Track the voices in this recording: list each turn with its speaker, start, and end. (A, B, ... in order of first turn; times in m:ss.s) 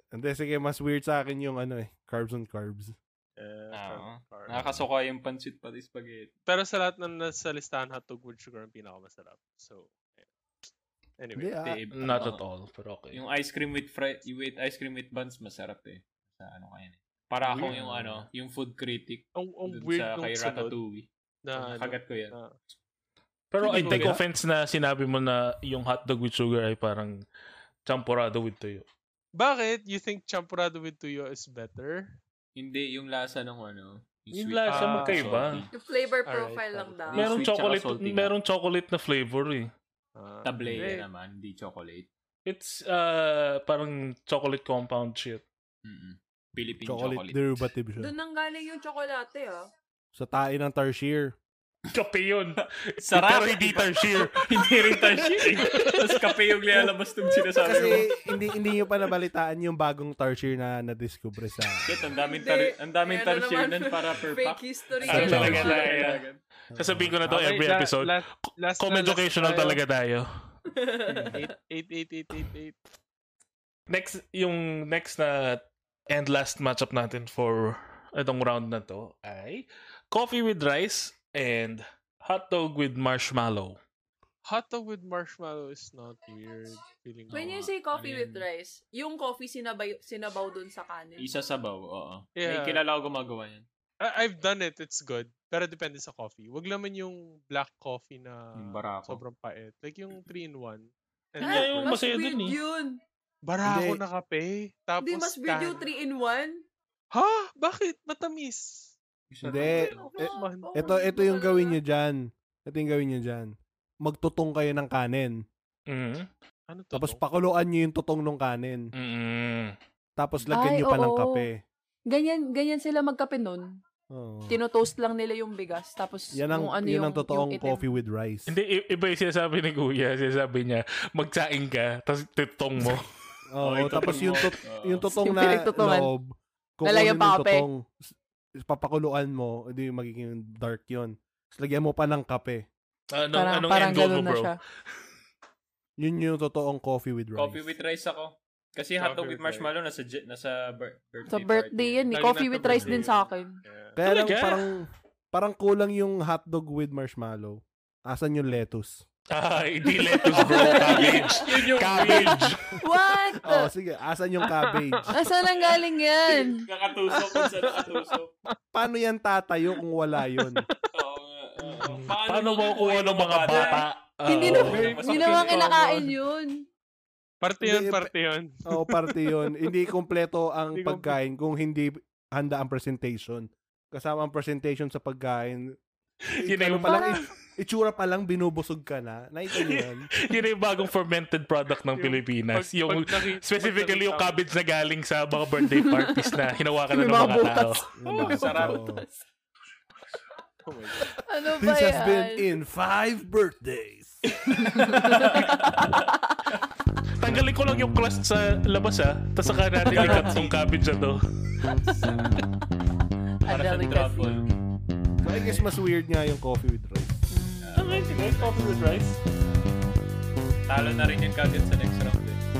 0:00.1-0:03.0 A
0:03.4-0:04.7 B
0:03.7-0:06.3 C
0:06.5-0:10.3 B
0:11.2-0:11.6 B
0:11.4-0:11.8 A
0:11.6-0:12.4 C
0:11.9-0:13.2 D
0:13.1-0:22.3 C
0:17.5-0:17.8 B
0:17.7-0:18.3 D
0:19.4-0:20.7 B
0:21.4-0:22.6 B
0:23.5-0:27.2 D
0:23.6-0:24.2 B
0:23.8-0:24.2 A
0:27.9-0:28.9 D
0:29.3-0:32.2 B
0:32.6-0:35.7 C
0:34.3-0:35.7 D
0:34.7-0:35.5 B
0:35.7-0:37.2 E
0:36.3-0:37.1 B
0:37.1-0:38.3 C
0:37.1-0:39.7 D
0:40.2-0:41.0 B
0:40.4-0:42.1 C
0:42.4-0:45.4 D
0:45.8-0:47.6 C
0:46.8-0:48.1 A
0:48.0-0:49.6 E
0:50.1-0:51.3 A
0:51.9-0:56.3 D
0:52.6-0:58.1 C
0:57.6-1:02.0 A
1:01.8-1:06.4 C
1:02.2-1:06.0 E
1:05.0-1:10.3 D
1:05.1-1:05.7 A
1:06.7-1:07.2 A
1:07.2-1:09.8 B
1:10.7-1:11.3 E
1:11.3-1:12.8 B
1:13.9-1:23.8 D
1:24.4-1:27.7 B
1:27.3-1:31.3 E
1:27.9-1:28.4 C
1:31.2-1:33.6 C
1:32.4-1:32.8 B
1:34.0-1:41.9 B
1:38.5-1:39.2 C
1:41.4-1:42.6 D
1:41.4-1:43.0 E
1:43.5-1:45.8 B
1:43.6-1:44.0 A
1:45.0-1:46.6 E
1:47.1-1:48.9 B
1:49.3-1:50.1 C
1:49.4-1:55.3 A
1:49.6-1:51.8 E
1:50.2-1:50.9 B
1:55.9-1:56.3 D
1:56.7-1:57.2 B
1:56.9-1:58.8 A
1:59.0-1:59.7 D
2:00.2-2:01.5 A
2:00.5-2:01.5 E
2:02.1-2:03.6 E
2:04.1-2:04.6 A
2:04.5-2:07.8 E
2:06.3-2:08.6 A
2:08.5-2:13.1 D
2:13.5-2:17.8 A
2:13.6-2:15.1 C
2:15.2-2:16.1 E
2:16.8-2:17.7 E
2:18.6-2:22.6 A
2:23.1-2:24.5 D
2:23.3-2:24.6 E
2:26.0-2:27.6 A
2:27.4-2:32.0 C
2:29.0-2:29.7 B
2:31.3-2:33.5 E
2:32.1-2:34.0 B
2:32.7-2:33.0 D
2:34.0-2:39.0 A
2:34.0-2:34.6 D
2:39.3-2:42.8 D
2:40.0-2:43.7 E
2:40.3-2:42.5 C
2:43.4-2:45.2 A
2:44.4-2:45.1 B
2:45.1-2:46.6 E
2:46.5-2:48.3 C
2:47.1-2:47.5 A
2:47.3-2:48.2 B
2:48.7-2:50.6 A
2:50.2-2:50.9 B
2:50.9-2:53.9 C
2:51.9-2:54.9 D
2:53.5-2:56.6 E
2:54.4-2:56.0 C
2:54.7-2:56.0 B
2:57.4-2:59.7 B
2:57.6-2:58.1 A
2:58.6-3:05.6 A
3:00.7-3:01.2 B
3:06.3-3:07.3 D
3:06.4-3:10.1 A
3:09.5-3:17.9 D
3:11.9-3:14.4 B
3:15.6-3:16.3 E
3:16.9-3:19.0 E
3:18.0-3:19.0 A
3:18.1-3:18.8 C
3:18.2-3:18.7 B
3:20.6-3:21.2 B
3:21.2-3:22.5 E
3:21.6-3:24.2 A
3:24.6-3:26.0 C
3:24.7-3:26.6 E
3:27.2-3:31.7 D
3:29.9-3:30.5 B
3:29.9-3:30.4 C
3:31.9-3:32.4 C
3:33.4-3:34.4 E
3:33.5-3:34.5 C
3:35.2-3:37.2 A
3:37.3-3:37.8 E
3:37.6-3:38.6 C
3:37.8-3:39.2 D
3:40.7-3:42.4 C